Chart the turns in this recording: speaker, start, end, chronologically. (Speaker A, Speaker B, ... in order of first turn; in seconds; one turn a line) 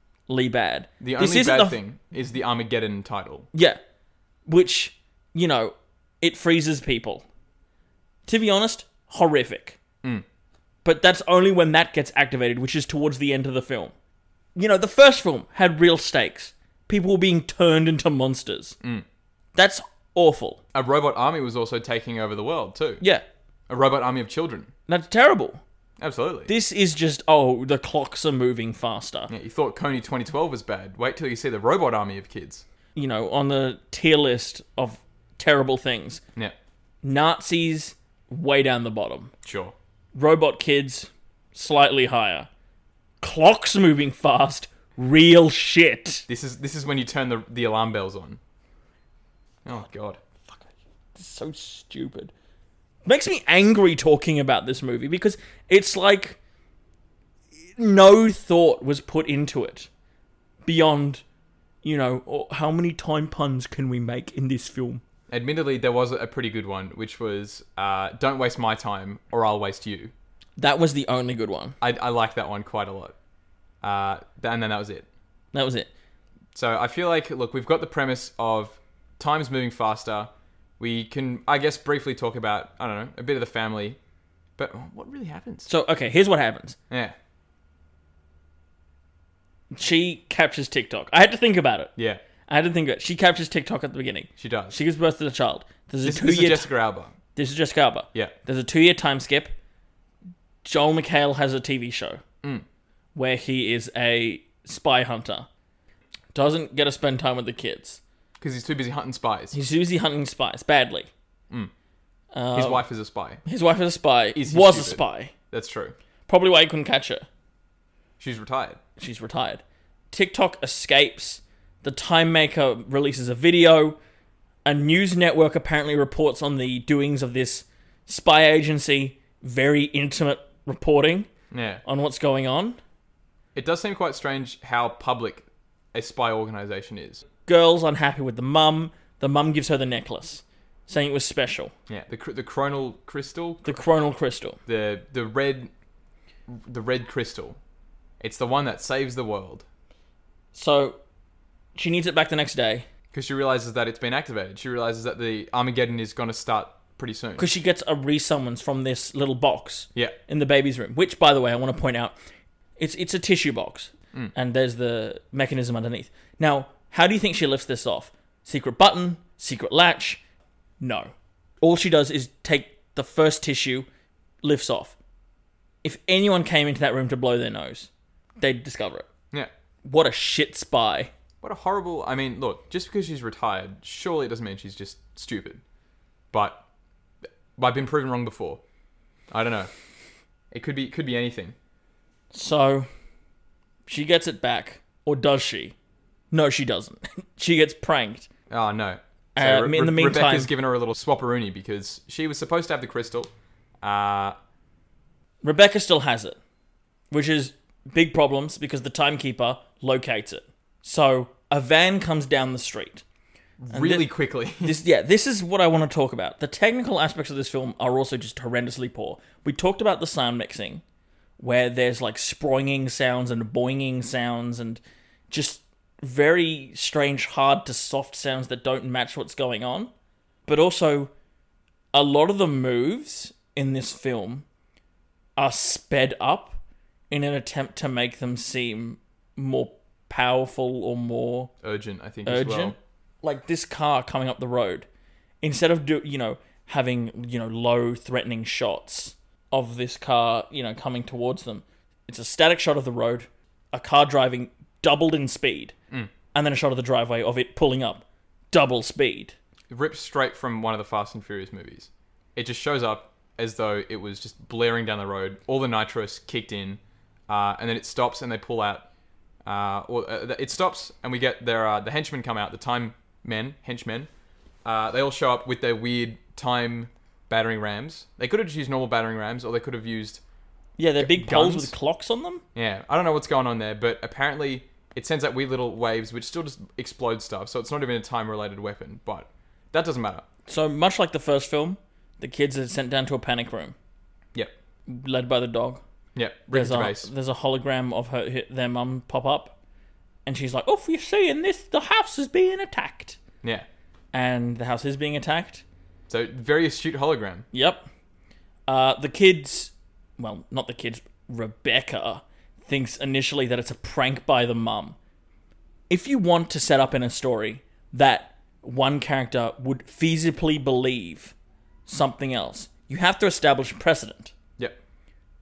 Speaker A: 0.3-1.8
Speaker B: 1.0-3.5
Speaker A: 3.5-3.8
Speaker A: 4.5-7.2
Speaker A: 8.2-9.8
Speaker A: 10.8-13.9
Speaker A: 14.6-18.8
Speaker B: 18.8-19.1
Speaker A: 19.5-20.6
Speaker B: 20.7-23.0
Speaker B: 23.7-24.7
Speaker A: 24.9-25.6
Speaker B: 26.0-26.5
Speaker A: 26.5-29.3
Speaker B: 29.3-32.6
Speaker A: 32.9-36.2
Speaker A: 37.0-39.3
Speaker B: 39.4-39.7
Speaker A: 40.1-42.5
Speaker A: 43.2-46.2
Speaker B: 46.3-48.4
Speaker B: 49.6-50.2
Speaker A: 50.5-52.3
Speaker A: 53.0-56.4
Speaker A: 57.8-59.9
Speaker A: 60.6-61.2
Speaker A: 61.8-65.0
Speaker B: 65.3-70.1
Speaker A: 70.6-71.8
Speaker B: 71.8-73.2
Speaker B: 73.8-75.1
Speaker A: 75.5-75.9
Speaker B: 76.5-84.0
Speaker B: 84.6-85.7
Speaker A: 85.7-86.8
Speaker B: 86.9-87.2
Speaker A: 89.7-91.9
Speaker B: 92.0-92.2
Speaker A: 92.5-96.7
Speaker B: 94.4-94.8
Speaker B: 96.0-97.1
Speaker A: 97.3-99.5
Speaker A: 100.6-102.2
Speaker A: 103.1-105.5
Speaker A: 106.3-108.0
Speaker B: 108.4-109.5
Speaker A: 109.5-111.1
Speaker A: 112.3-112.8
Speaker B: 112.5-113.4
Speaker A: 113.4-115.3
Speaker B: 114.3-115.9
Speaker A: 116.3-117.2
Speaker B: 118.2-118.8
Speaker A: 119.0-124.0
Speaker A: 124.6-131.3
Speaker B: 131.5-131.8
Speaker A: 131.8-132.8
Speaker B: 133.5-137.2
Speaker A: 137.4-141.7
Speaker B: 141.9-143.8
Speaker A: 143.6-144.6
Speaker B: 144.7-145.7
Speaker B: 146.5-147.6
Speaker B: 148.2-149.6
Speaker A: 150.5-151.0
Speaker A: 151.8-152.9
Speaker B: 153.1-157.5
Speaker A: 157.4-162.2
Speaker A: 162.8-170.2
Speaker A: 170.8-173.9
Speaker A: 174.4-174.9
Speaker A: 175.8-179.1
Speaker A: 179.8-181.1
Speaker B: 181.4-185.6
Speaker B: 186.3-186.6
Speaker B: 187.6-188.6
Speaker B: 189.3-189.7
Speaker B: 190.5-191.5
Speaker A: 192.3-192.9
Speaker A: 193.9-195.7
Speaker A: 196.3-198.3
Speaker B: 198.5-203.3
Speaker A: 199.3-200.5
Speaker B: 203.8-204.3
Speaker A: 205.4-206.4
Speaker A: 207.1-213.0
Speaker B: 213.6-214.8
Speaker A: 213.7-214.1
Speaker A: 214.6-220.8
Speaker A: 221.4-229.9
Speaker A: 230.5-231.1
Speaker A: 231.9-234.4
Speaker A: 235.4-241.5
Speaker B: 241.6-242.8
Speaker A: 242.2-244.8
Speaker A: 245.4-255.7
Speaker A: 256.3-259.4
Speaker B: 259.7-268.9
Speaker B: 269.4-274.1
Speaker B: 274.6-280.2
Speaker A: 280.8-282.4
Speaker B: 281.0-281.7
Speaker B: 282.5-290.2
Speaker A: 290.5-293.7
Speaker A: 294.9-295.8
Speaker B: 296.1-297.1
Speaker A: 296.5-299.6
Speaker A: 300.2-303.2
Speaker A: 304.1-305.6
Speaker B: 306.1-307.5
Speaker A: 307.5-307.9
Speaker A: 308.7-314.9
Speaker A: 315.9-321.3
Speaker A: 321.9-324.3